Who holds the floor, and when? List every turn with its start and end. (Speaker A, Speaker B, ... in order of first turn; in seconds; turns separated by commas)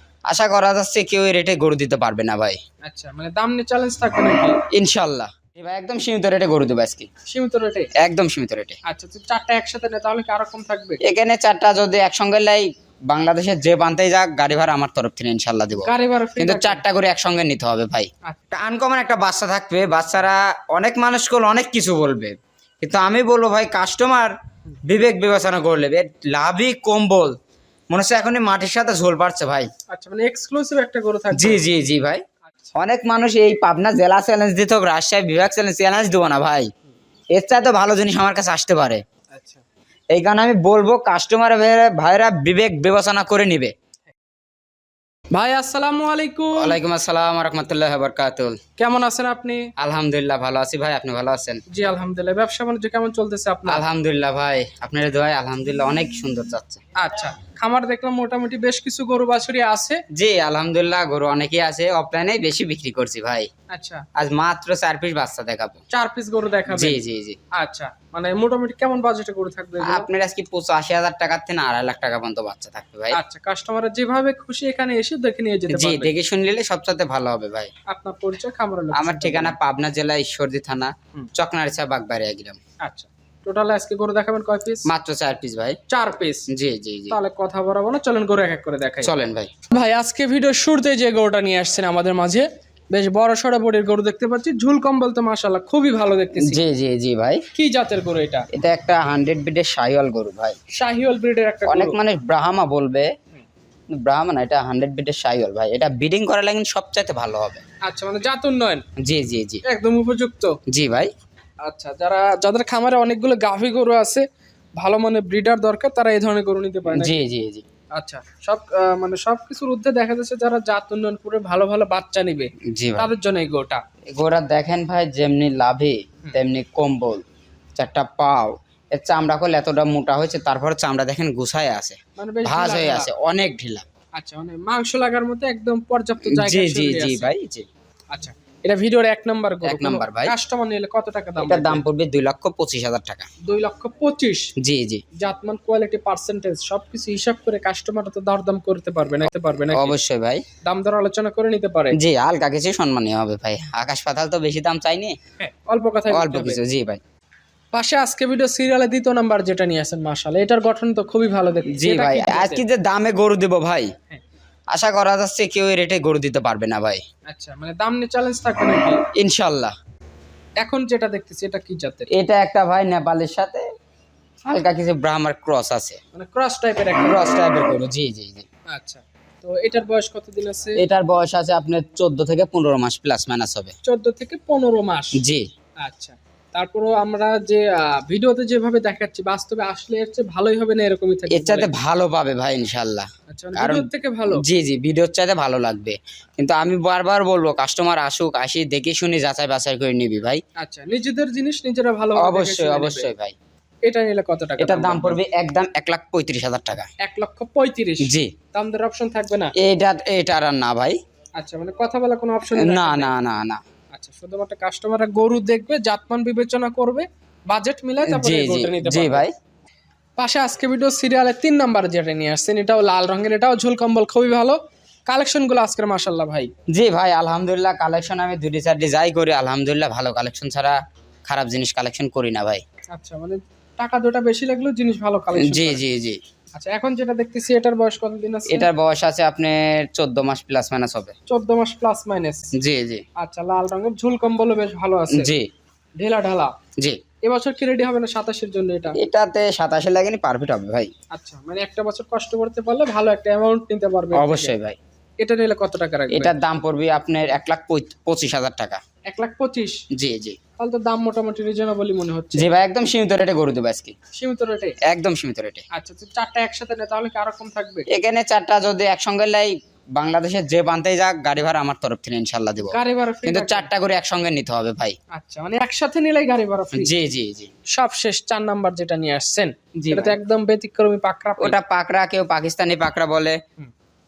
Speaker A: 0.3-2.6, Speaker B: 2.8-4.6, Speaker A: 4.7-7.1, Speaker B: 7.3-7.9, Speaker A: 8.0-8.8, Speaker B: 8.8-11.0, Speaker A: 11.0-27.4, Speaker B: 15.8-16.8, Speaker A: 27.9-29.7, Speaker B: 29.9-31.7, Speaker A: 31.3-32.2, Speaker B: 32.5-32.7, Speaker A: 32.7-36.7, Speaker A: 37.3-39.0, Speaker B: 39.3-39.6, Speaker A: 40.1-43.7, Speaker B: 45.3-46.8, Speaker A: 46.6-48.6, Speaker B: 48.8-49.7, Speaker A: 49.8-51.6, Speaker B: 51.7-53.8, Speaker A: 53.7-56.8, Speaker B: 57.0-60.0, Speaker A: 60.1-63.5, Speaker B: 63.7-64.0, Speaker A: 64.2-65.8, Speaker B: 65.9-67.0, Speaker A: 66.7-67.4, Speaker B: 67.5-70.1, Speaker A: 69.8-73.2, Speaker B: 73.1-76.1, Speaker A: 75.7-77.7, Speaker B: 77.9-79.5, Speaker A: 78.9-82.6, Speaker B: 82.8-84.9, Speaker A: 84.8-85.8, Speaker B: 85.9-86.5, Speaker A: 86.5-87.2, Speaker B: 87.1-89.1, Speaker A: 89.0-89.5, Speaker B: 89.7-96.6, Speaker A: 96.3-97.4, Speaker B: 97.5-98.5, Speaker A: 98.5-100.5, Speaker B: 100.7-102.0, Speaker A: 101.7-103.1, Speaker A: 103.9-107.6, Speaker B: 107.8-108.8, Speaker A: 109.0-109.6, Speaker B: 109.6-110.6, Speaker A: 110.7-111.1, Speaker B: 111.6-114.2, Speaker B: 114.8-117.1, Speaker A: 116.9-117.6, Speaker B: 117.9-123.8, Speaker A: 122.7-123.1, Speaker A: 124.1-133.8, Speaker B: 132.2-133.1, Speaker B: 134.2-137.3, Speaker A: 136.2-137.7, Speaker B: 138.1-141.8, Speaker A: 139.6-140.3, Speaker A: 141.4-143.3, Speaker B: 143.4-144.5, Speaker A: 144.6-145.0, Speaker B: 145.1-149.9, Speaker A: 149.7-150.4, Speaker B: 150.6-151.9, Speaker A: 151.9-155.2, Speaker B: 155.4-156.6, Speaker A: 156.1-157.0, Speaker B: 157.7-162.6, Speaker A: 161.7-163.9, Speaker A: 164.7-167.0, Speaker B: 167.3-169.0, Speaker A: 169.1-169.7, Speaker B: 170.6-172.1, Speaker A: 172.1-173.6, Speaker A: 174.4-176.0, Speaker B: 176.1-177.4, Speaker A: 177.0-178.4, Speaker B: 178.7-180.8, Speaker A: 180.8-183.7, Speaker B: 183.8-185.2, Speaker A: 185.2-185.4, Speaker B: 185.8-191.7, Speaker A: 191.3-200.4, Speaker B: 193.3-194.4, Speaker B: 200.6-203.1, Speaker A: 202.2-203.3, Speaker B: 203.8-205.2, Speaker A: 204.6-206.9, Speaker B: 207.0-209.5, Speaker A: 208.0-208.3, Speaker A: 209.6-210.9, Speaker B: 211.4-213.1, Speaker A: 212.5-213.6, Speaker B: 213.9-219.2, Speaker A: 218.1-219.3, Speaker B: 220.2-224.6, Speaker B: 225.1-226.5, Speaker A: 226.7-232.6, Speaker B: 232.9-235.8, Speaker A: 235.3-236.2, Speaker B: 236.6-238.7, Speaker A: 238.5-241.1, Speaker B: 241.3-242.5, Speaker A: 242.6-243.0, Speaker B: 243.2-245.3, Speaker A: 245.1-245.5, Speaker B: 246.0-246.5, Speaker B: 247.2-249.0, Speaker A: 249.0-250.9, Speaker B: 251.1-254.5, Speaker A: 254.1-254.8, Speaker B: 255.2-256.3, Speaker A: 256.1-258.8, Speaker B: 259.1-259.8, Speaker A: 259.9-260.4, Speaker B: 260.6-262.5, Speaker A: 262.3-263.9, Speaker B: 264.1-264.8, Speaker A: 264.8-265.6, Speaker B: 265.7-267.9, Speaker A: 267.9-275.0, Speaker B: 272.6-273.7, Speaker B: 275.1-276.9, Speaker A: 276.7-277.5, Speaker B: 277.7-281.6, Speaker A: 279.8-280.2, Speaker A: 281.4-283.4